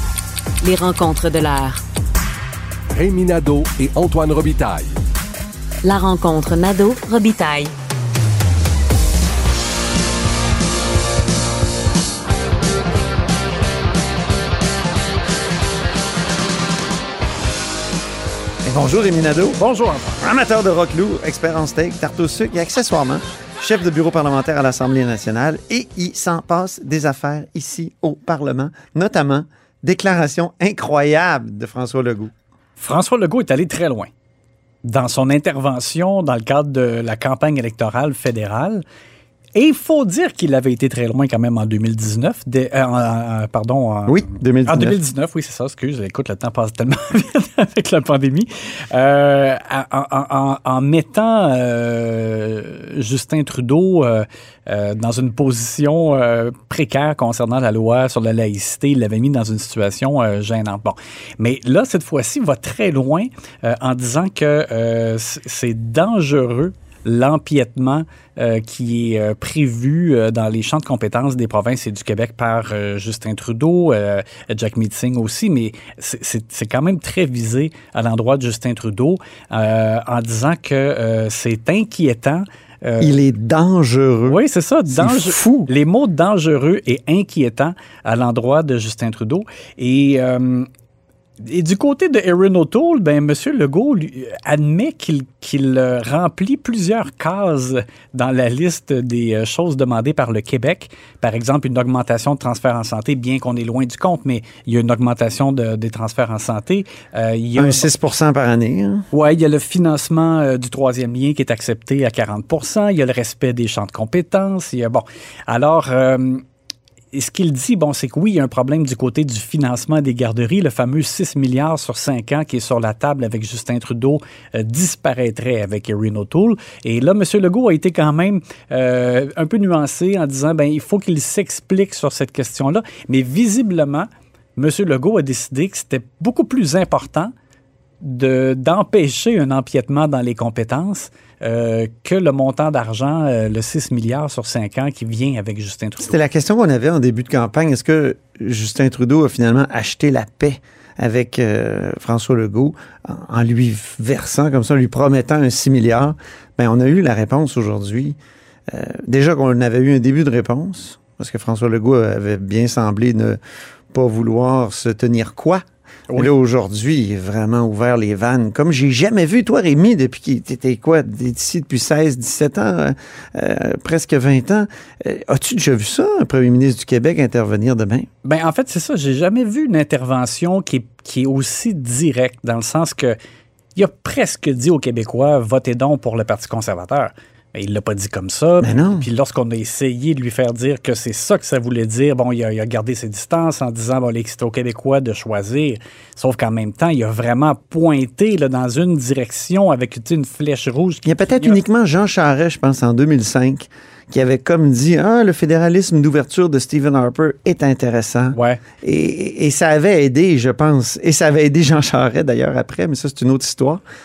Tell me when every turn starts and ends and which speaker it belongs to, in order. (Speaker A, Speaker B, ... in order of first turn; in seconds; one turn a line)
Speaker A: 0.6-1.8
Speaker B: 2.9-4.9
Speaker A: 5.8-7.7
Speaker C: 18.6-19.6
Speaker D: 19.6-20.2
Speaker C: 20.2-32.3
Speaker D: 32.8-34.1
Speaker D: 34.8-38.8
Speaker D: 39.5-83.2
Speaker C: 44.1-45.0
Speaker C: 83.0-85.7
Speaker D: 84.3-90.7
Speaker D: 91.4-107.9
Speaker C: 107.5-109.0
Speaker D: 109.1-116.4
Speaker D: 117.1-137.3
Speaker D: 138.0-146.2
Speaker C: 146.0-158.2
Speaker C: 158.7-163.4
Speaker C: 163.9-165.6
Speaker C: 166.1-178.1
Speaker D: 178.2-183.2
Speaker D: 183.7-201.6
Speaker C: 188.6-189.1
Speaker C: 201.0-213.8
Speaker D: 208.3-208.6